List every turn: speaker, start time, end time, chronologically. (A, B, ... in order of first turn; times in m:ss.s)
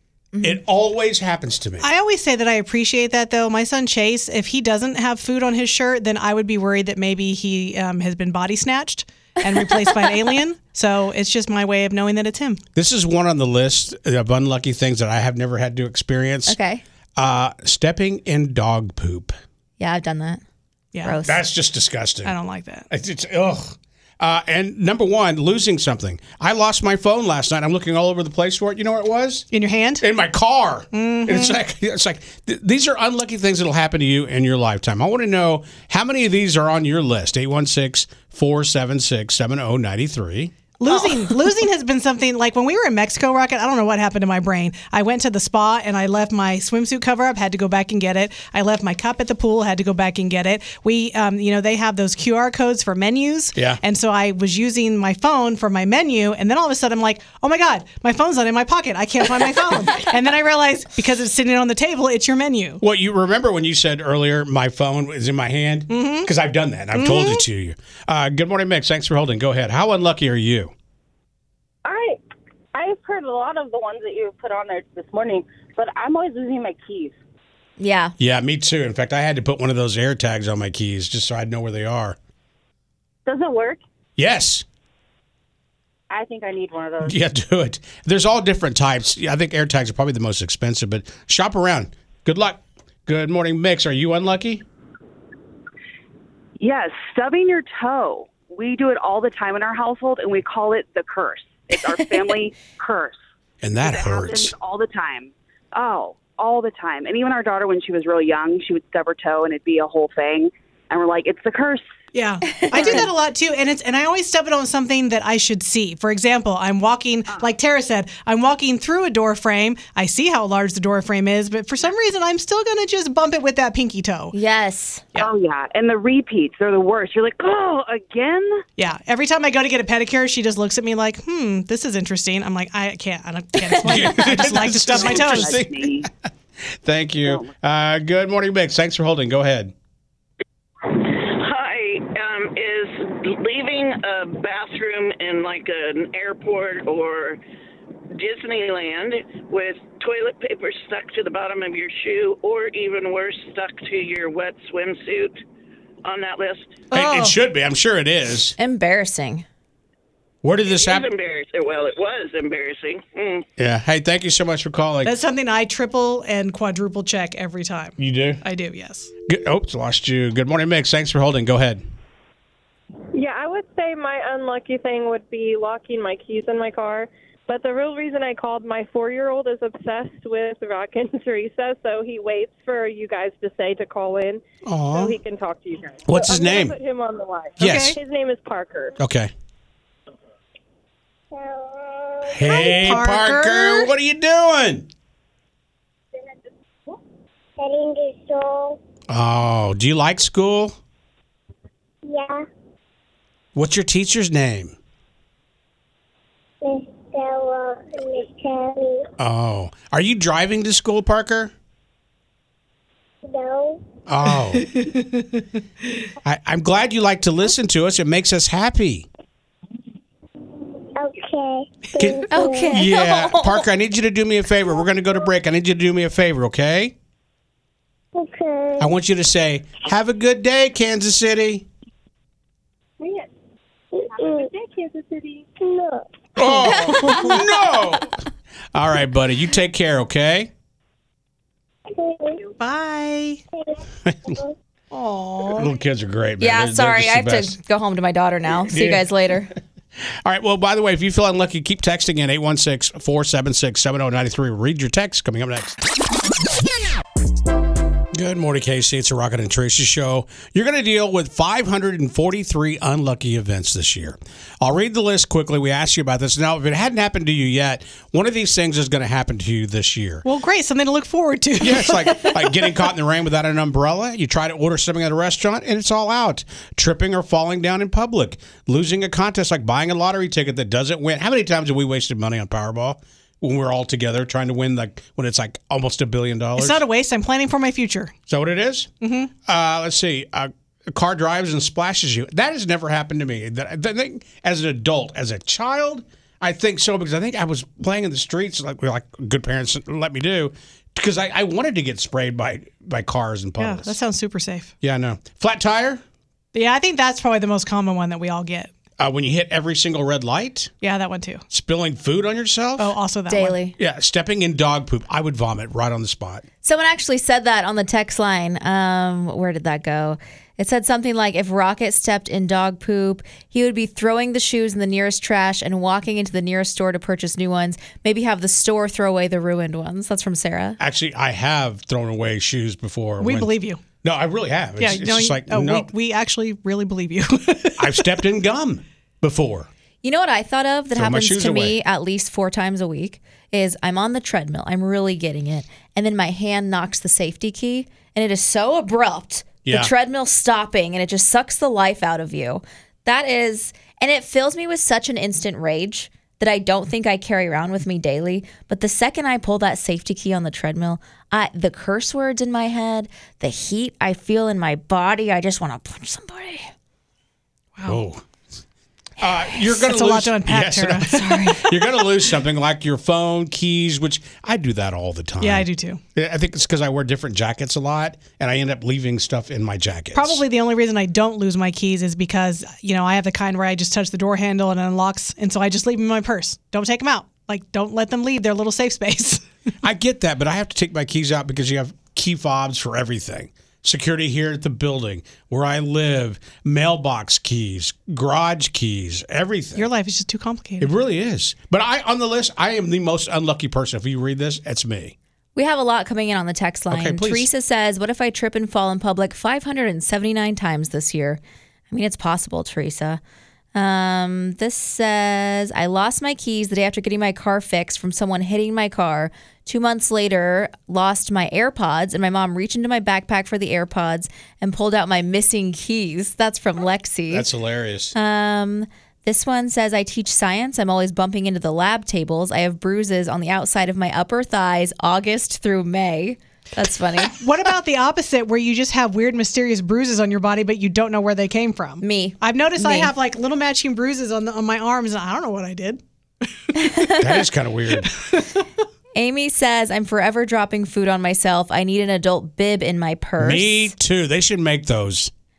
0:00.4-0:01.9 A
0:01.8-0:12.6 B
0:09.6-0:10.1 C
0:12.8-0:16.6 A
0:16.5-0:16.8 C
0:17.2-0:19.4 A
0:19.8-0:20.4 C
0:21.0-0:21.4 C
0:21.2-0:22.4 A
0:22.2-0:22.9 B
0:22.9-0:29.5 A
0:29.5-0:30.0 B
0:30.0-0:40.5 A
0:30.9-0:31.6 B
0:40.8-1:02.8 B
1:02.8-1:10.7 A
1:05.9-1:06.3 B
1:06.9-1:07.4 B
1:11.8-1:12.2 D
1:12.7-1:17.2 D
1:17.8-1:18.1 C
1:18.2-1:22.2 A
1:23.3-1:23.8 D
1:24.2-1:24.6 A
1:26.1-1:27.2 D
1:27.0-1:34.6 A
1:36.6-1:43.2 E
1:43.6-1:44.5 A
1:43.8-1:51.9 E
1:52.1-2:04.3 B
1:52.5-1:53.1 C
1:52.7-1:53.1 E
2:04.3-2:05.0 C
2:05.2-2:08.6 E
2:08.8-2:15.6 B
2:13.7-2:14.2 C
2:13.8-2:16.1 A
2:14.6-2:16.1 E
2:16.8-2:19.7 A
2:20.8-2:27.4 F
2:28.1-2:35.4 F
2:36.0-2:36.8 F
2:36.9-2:37.4 B
2:36.9-2:38.6 A
2:38.6-2:39.4 C
2:40.4-2:41.1 A
2:40.6-2:43.4 F
2:43.6-2:45.2 A
2:45.0-2:49.1 B
2:48.0-2:48.4 A
2:49.3-2:51.8 A
2:53.1-3:09.0 G
3:04.6-3:05.2 A
3:06.1-3:06.8 A
3:07.6-3:08.0 A
3:07.6-3:08.0 B
3:09.0-3:09.3 A
3:11.3-3:12.5 H
3:12.3-3:14.9 A
3:12.4-3:13.9 B
3:17.6-3:18.8 H
3:19.1-3:20.8 A
3:22.1-3:22.4 H
3:23.6-3:24.8 A
3:26.6-3:29.1 H
3:29.2-3:31.5 A
3:33.3-3:33.8 H
3:34.1-3:34.7 A
3:34.6-3:35.9 B
3:36.2-3:39.1 A
3:41.0-3:42.9 H
3:42.0-3:46.9 A
3:42.3-3:43.7 C
3:48.2-3:48.9 H
3:48.8-3:51.7 A
3:54.0-3:54.5 H
3:55.6-3:56.0 H
3:56.4-3:58.1 A
3:56.4-3:57.4 B
3:56.6-3:57.3 C
3:58.7-4:00.5 A
4:02.0-4:02.5 H
4:02.6-4:03.4 B
4:04.1-4:04.4 A
4:04.9-4:05.7 B
4:05.5-4:07.6 A
4:06.4-4:09.5 C
4:08.7-4:09.1 A
4:10.2-4:15.8 A
4:18.1-4:30.2 A
4:30.2-4:32.4 B
4:31.6-4:46.8 A
4:46.6-4:48.1 B
4:48.3-4:48.9 A
4:49.0-4:49.3 B
4:49.4-5:04.0 A
5:03.6-5:04.7 B
5:04.8-5:06.0 A
5:06.5-5:08.7 B
5:09.0-5:10.7 A
5:10.8-5:11.4 B
5:11.5-5:13.0 A
5:12.8-5:13.6 B
5:13.3-5:13.8 C
5:13.8-5:16.4 A
5:16.6-5:30.8 C
5:30.8-5:33.5 A
5:33.2-5:33.8 B
5:34.0-5:35.9 A
5:34.8-5:38.0 B
5:37.8-5:39.7 A
5:40.0-6:06.7 C
5:41.0-5:41.8 A
5:49.6-5:49.9 A
6:07.8-6:08.0 B
6:07.8-6:08.2 A
6:09.2-6:20.4 A
6:09.7-6:11.5 B
6:11.1-6:11.6 C
6:15.4-6:16.0 B
6:20.1-6:29.4 B
6:29.8-6:39.9 A
6:39.8-6:40.9 B
6:40.8-6:45.2 A
6:45.6-6:51.4 C
6:46.9-6:47.5 A
6:51.9-6:53.2 C
6:53.7-7:07.5 C
7:07.3-7:08.2 A
7:08.1-7:17.4 C
7:17.3-7:26.0 B
7:22.0-7:23.1 C
7:26.8-7:27.4 C
7:27.2-7:28.1 A
7:29.2-7:33.9 C
7:33.4-7:35.3 A